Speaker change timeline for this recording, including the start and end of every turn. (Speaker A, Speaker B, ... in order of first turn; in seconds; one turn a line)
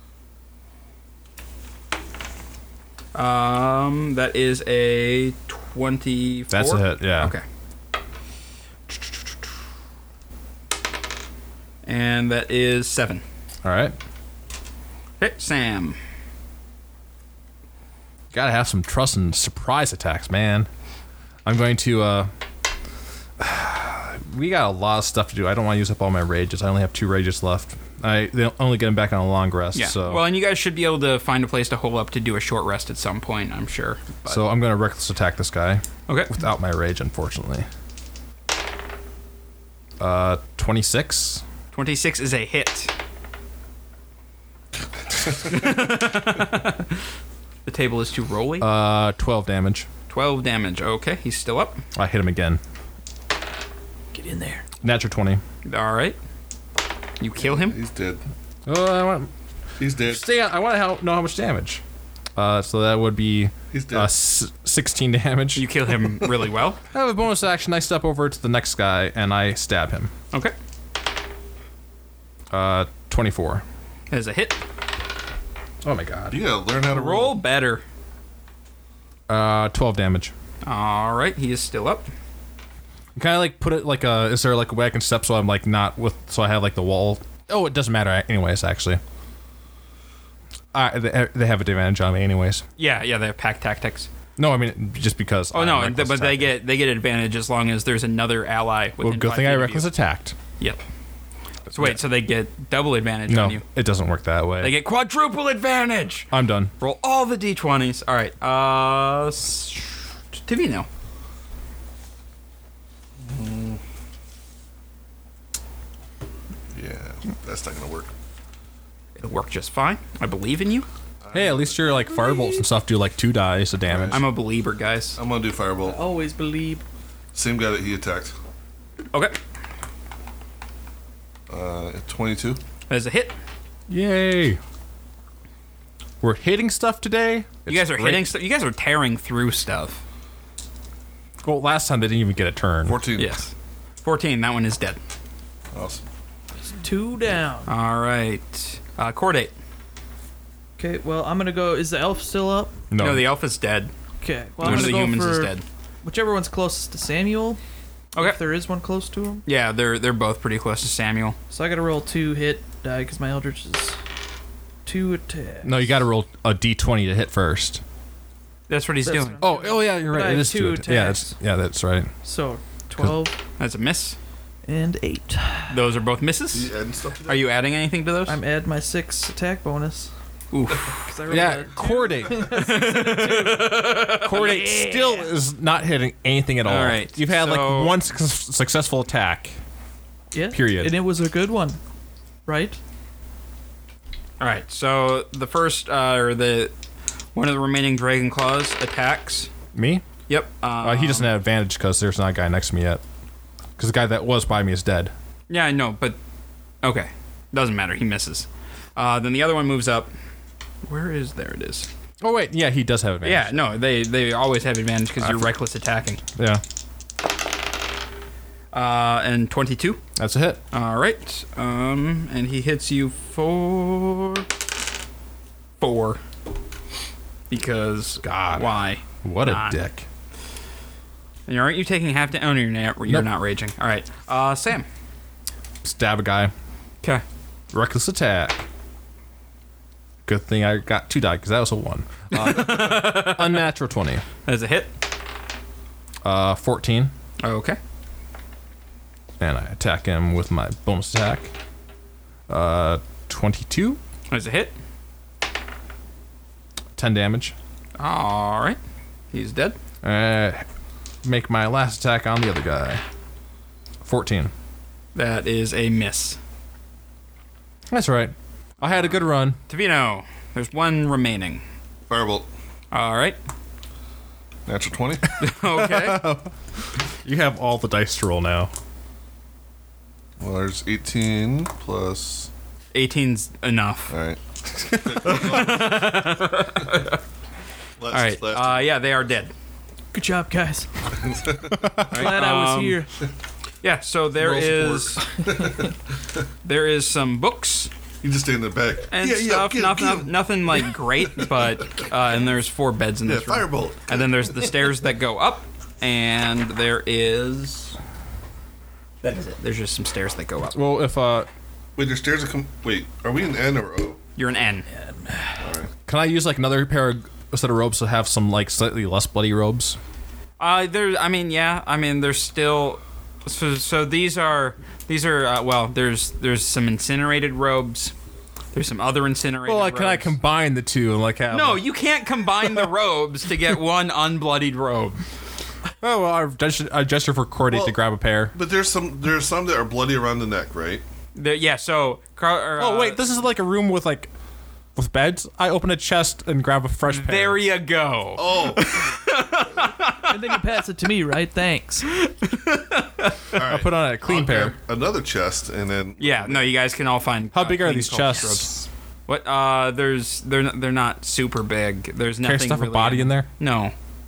Speaker A: 3.1-7.4
Speaker B: 6.5-7.3
Speaker A: 11.8-13.2
Speaker B: 13.6-13.9
Speaker A: 15.2-16.0
Speaker B: 18.3-20.7
Speaker B: 21.4-22.3
Speaker B: 23.4-30.2
Speaker A: 29.7-34.4
Speaker B: 34.2-37.7
Speaker B: 40.0-41.4
Speaker A: 41.7-42.9
Speaker A: 45.3-46.9
Speaker A: 47.6-48.7
Speaker B: 48.6-49.9
Speaker A: 50.1-51.8
Speaker B: 51.9-52.6
Speaker C: 54.1-54.6
Speaker B: 54.8-55.4
Speaker A: 55.6-56.2
Speaker A: 57.2-57.8
Speaker D: 57.4-58.2
Speaker B: 58.6-59.3
Speaker D: 59.8-60.2
Speaker B: 60.1-61.8
Speaker B: 62.4-65.7
Speaker D: 63.7-64.1
Speaker A: 65.5-66.8
Speaker B: 66.9-70.1
Speaker B: 72.5-73.6
Speaker A: 74.1-74.6
Speaker B: 75.8-76.4
Speaker D: 76.3-77.4
Speaker A: 76.9-77.8
Speaker B: 79.3-80.3
Speaker A: 80.6-82.1
Speaker B: 83.2-89.0
Speaker B: 90.7-92.6
Speaker A: 92.8-94.1
Speaker B: 94.4-96.5
Speaker A: 95.5-99.9
Speaker B: 99.0-100.3
Speaker B: 101.7-102.0
Speaker A: 101.7-103.6
Speaker B: 103.3-104.8
Speaker A: 104.6-110.9
Speaker B: 106.3-106.7
Speaker D: 113.2-113.8
Speaker D: 116.7-118.1
Speaker A: 119.2-120.8
Speaker D: 121.2-122.0
Speaker B: 121.3-124.2
Speaker C: 122.2-122.6
Speaker D: 123.9-124.3
Speaker A: 124.1-125.2
Speaker D: 125.2-126.0
Speaker C: 125.8-126.8
Speaker D: 127.3-128.3
Speaker D: 131.5-132.6
Speaker A: 132.9-133.3
Speaker B: 133.9-134.6
Speaker B: 136.2-138.3
Speaker A: 137.7-140.0
Speaker B: 141.4-143.0
Speaker D: 142.8-143.3
Speaker A: 143.2-145.0
Speaker D: 145.7-146.0
Speaker C: 146.7-147.7
Speaker A: 147.7-149.5
Speaker C: 150.8-152.8
Speaker B: 152.9-153.3
Speaker A: 153.0-153.9
Speaker C: 154.2-155.5
Speaker A: 154.6-155.6
Speaker B: 154.6-154.9
Speaker C: 156.0-157.6
Speaker C: 158.2-159.4
Speaker A: 159.4-161.3
Speaker C: 161.5-164.0
Speaker C: 164.8-165.9
Speaker B: 165.6-167.8
Speaker A: 168.7-169.4
Speaker C: 169.0-171.3
Speaker B: 169.4-172.1
Speaker C: 172.2-173.3
Speaker A: 173.6-174.2
Speaker C: 174.7-175.8
Speaker A: 175.7-176.7
Speaker D: 176.5-177.4
Speaker A: 177.2-178.4
Speaker C: 178.3-180.1
Speaker A: 180.5-181.1
Speaker C: 181.0-185.3
Speaker B: 181.3-182.7
Speaker A: 182.3-184.7
Speaker B: 184.0-189.6
Speaker A: 186.6-187.9
Speaker C: 190.3-191.8
Speaker B: 190.5-190.9
Speaker C: 192.4-192.8
Speaker A: 194.4-196.7
Speaker A: 197.3-199.5
Speaker B: 199.7-200.0
Speaker A: 200.3-201.3
Speaker B: 200.8-203.0
Speaker B: 203.8-205.1
Speaker A: 205.5-206.2
Speaker A: 206.8-210.1
Speaker A: 210.8-211.9
Speaker B: 212.2-213.6
Speaker A: 213.2-216.2
Speaker B: 215.2-215.5
Speaker B: 216.3-216.6
Speaker A: 218.7-220.0
Speaker B: 220.2-220.6
Speaker A: 220.7-224.4
Speaker A: 225.8-226.2
Speaker A: 227.5-229.8
Speaker B: 228.2-228.7
Speaker B: 229.2-230.0
Speaker A: 231.5-234.8
Speaker B: 235.8-236.5
Speaker B: 237.7-238.6
Speaker B: 240.2-244.2
Speaker A: 242.3-243.7
Speaker A: 244.4-244.9
Speaker B: 246.2-247.1
Speaker A: 247.4-247.8
Speaker B: 249.4-251.5
Speaker B: 252.5-254.0
Speaker A: 254.3-254.7
Speaker B: 256.9-257.5
Speaker A: 258.0-258.8
Speaker A: 259.3-259.8
Speaker B: 260.0-260.6
Speaker B: 261.2-263.0
Speaker B: 264.0-264.5
Speaker A: 265.1-266.4
Speaker B: 267.9-269.6
Speaker A: 269.7-271.6
Speaker D: 272.1-272.5
Speaker A: 272.9-273.4
Speaker D: 274.6-275.4
Speaker A: 275.4-276.2
Speaker B: 275.7-276.5
Speaker B: 277.2-278.7
Speaker D: 280.4-282.5
Speaker A: 282.9-284.1
Speaker D: 284.1-286.3
Speaker A: 285.2-287.2
Speaker D: 288.0-288.9
Speaker A: 288.1-289.5
Speaker C: 290.1-291.0
Speaker D: 291.1-292.0
Speaker B: 291.8-292.1
Speaker C: 292.1-293.1
Speaker A: 292.1-293.0
Speaker A: 293.8-295.3
Speaker D: 294.4-295.9
Speaker A: 296.6-297.9
Speaker D: 298.2-301.6
Speaker A: 299.1-307.9
Speaker D: 303.2-304.6
Speaker A: 309.2-310.8
Speaker B: 310.7-311.5
Speaker D: 311.9-314.2
Speaker A: 314.4-314.9
Speaker C: 315.0-315.5
Speaker D: 315.6-315.9
Speaker B: 316.1-320.0
Speaker A: 320.6-328.1
Speaker A: 328.7-330.3
Speaker B: 329.6-331.8
Speaker A: 331.5-335.2
Speaker B: 332.6-332.9
Speaker B: 336.0-338.5
Speaker D: 337.7-338.0
Speaker D: 338.5-341.0
Speaker A: 341.3-343.2
Speaker B: 342.8-344.3
Speaker B: 344.9-347.6
Speaker A: 347.1-350.6
Speaker D: 348.4-349.1
Speaker C: 350.3-352.1
Speaker A: 352.1-353.4
Speaker D: 353.5-356.7
Speaker B: 353.6-354.8
Speaker A: 356.2-363.9
Speaker B: 357.5-358.8
Speaker B: 362.4-363.5